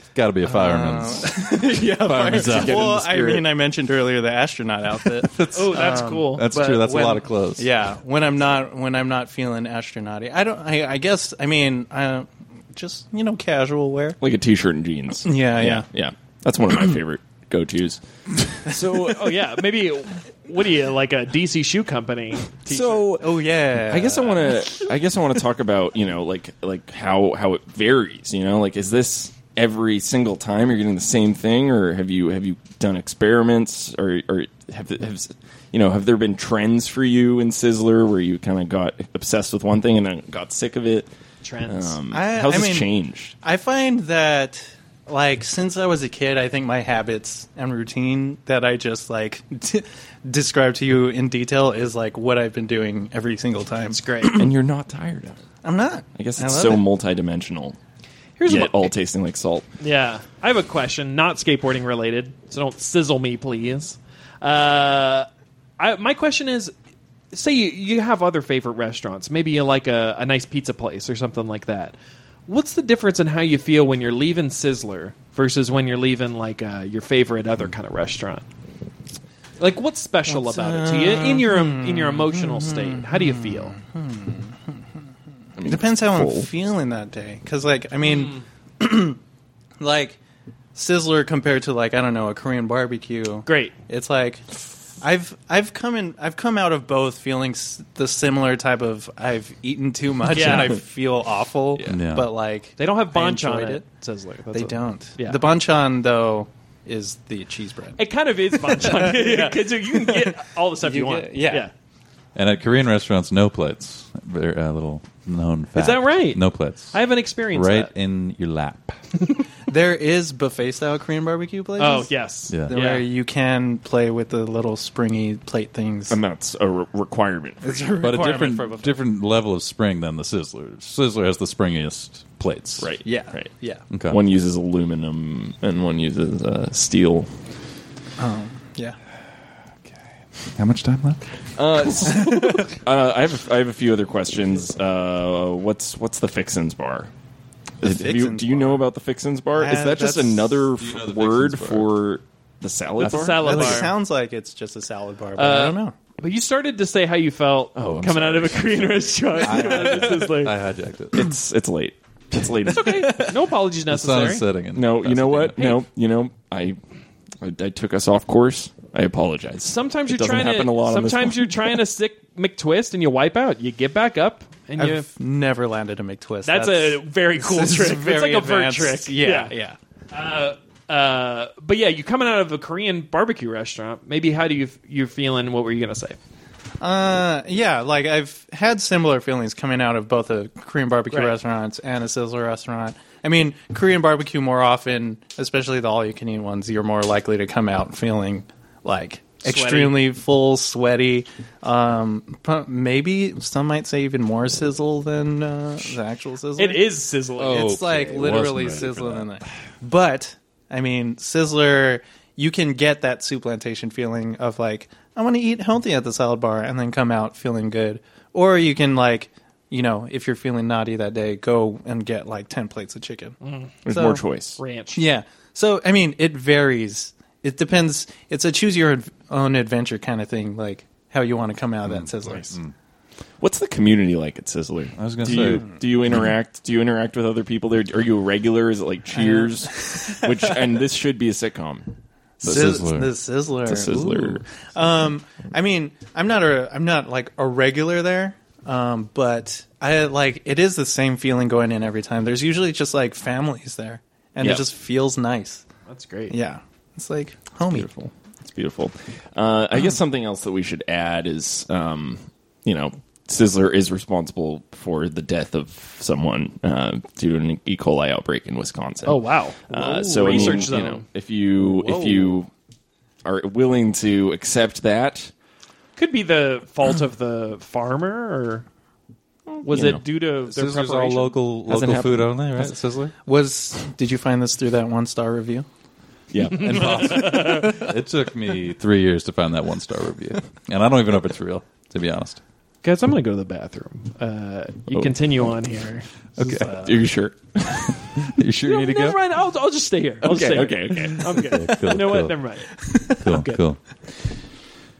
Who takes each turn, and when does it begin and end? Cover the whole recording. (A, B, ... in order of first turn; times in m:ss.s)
0:00.1-0:02.9 A
0:00.4-0:14.2 B
0:02.1-0:03.5 C
0:05.0-0:07.7 A
0:05.4-0:06.5 D
0:14.2-0:18.0 C
0:15.2-0:15.9 B
0:18.6-0:19.5 C
0:19.0-0:23.1 D
0:22.7-0:41.1 C
0:23.2-0:24.6 B
0:41.4-0:42.0 D
0:41.6-0:43.3 C
0:42.1-0:54.5 B
0:53.9-0:54.4 D
0:54.4-0:55.4 C
0:55.6-0:56.9 B
0:56.1-0:57.8 C
0:58.4-0:58.9 D
0:58.4-0:59.6 C
0:59.8-1:05.3 D
1:05.8-1:06.7 D
1:07.3-1:11.9 D
1:12.5-1:18.4 D
1:19.6-1:23.8 D
1:20.2-1:24.8 B
1:25.6-1:26.5 C
1:25.7-1:29.2 B
1:29.8-1:30.2 B
1:30.7-1:34.5 B
1:33.4-1:33.7 D
1:35.0-1:43.8 B
1:40.3-1:40.8 D
1:40.4-1:40.7 C
1:41.8-1:42.3 A
1:42.8-1:45.4 D
1:44.5-1:48.0 B
1:48.0-1:51.7 D
1:48.5-1:51.7 B
1:52.3-1:57.0 A
1:55.8-1:57.9 D
1:57.5-1:59.0 A
1:59.7-2:02.1 B
2:01.8-2:03.1 D
2:02.7-2:06.2 B
2:06.1-2:07.9 C
2:07.6-2:09.0 B
2:08.0-2:12.9 A
2:12.8-2:13.5 C
2:13.0-2:13.8 B
2:13.9-2:14.2 A
2:14.1-2:17.3 C
2:18.2-2:19.0 B
2:20.5-2:21.2 A
2:21.6-2:27.1 C
2:22.3-2:22.7 B
2:27.8-2:28.9 B
2:27.8-2:33.8 C
2:29.5-2:30.6 B
2:30.8-2:31.9 A
2:33.0-2:34.0 D
2:33.0-2:35.9 B
2:35.4-2:40.5 D
2:37.7-2:40.2 C
2:39.4-2:41.3 A
2:41.1-2:43.2 C
2:42.3-2:45.6 A
2:42.6-2:44.4 D
2:44.7-2:46.8 C
2:45.6-2:45.8 D
2:47.4-2:51.8 C
2:49.6-2:55.1 D
2:54.8-2:59.8 B
2:56.4-2:59.5 D
3:00.1-3:06.2 D
3:06.8-3:26.9 B
3:19.4-3:20.0 D
3:26.6-3:27.8 D
3:27.4-3:29.3 A
3:27.4-3:44.2 B
3:43.4-3:43.8 D
3:43.8-3:44.6 C
3:44.6-3:45.0 D
3:44.9-3:52.6 B
3:51.9-3:52.7 A
3:53.4-4:01.9 C
3:55.0-3:55.6 A
3:59.1-4:00.6 B
4:02.4-4:15.6 B
4:02.4-4:03.1 A
4:02.4-4:02.7 C
4:03.6-4:04.4 C
4:14.4-4:14.6 C
4:15.9-4:16.3 D
4:16.3-4:17.9 B
4:17.7-4:32.5 C
4:29.0-4:31.0 D
4:30.2-4:30.5 B
4:31.6-4:32.4 A
4:33.2-4:35.3 C
4:36.0-4:38.6 D
4:39.5-4:40.0 C
4:39.6-4:41.4 D
4:40.5-4:43.1 A
4:41.7-4:42.8 C
4:43.2-4:45.6 B
4:46.3-4:47.6 C
4:46.5-4:52.4 A
4:46.8-4:47.6 D
4:52.8-4:57.1 D
4:54.9-4:55.2 C
4:56.4-4:56.7 A
4:56.7-4:58.1 C
4:58.2-4:59.2 A
4:58.6-5:03.6 D
5:00.2-5:01.5 C
5:01.2-5:02.4 A
5:03.1-5:03.8 A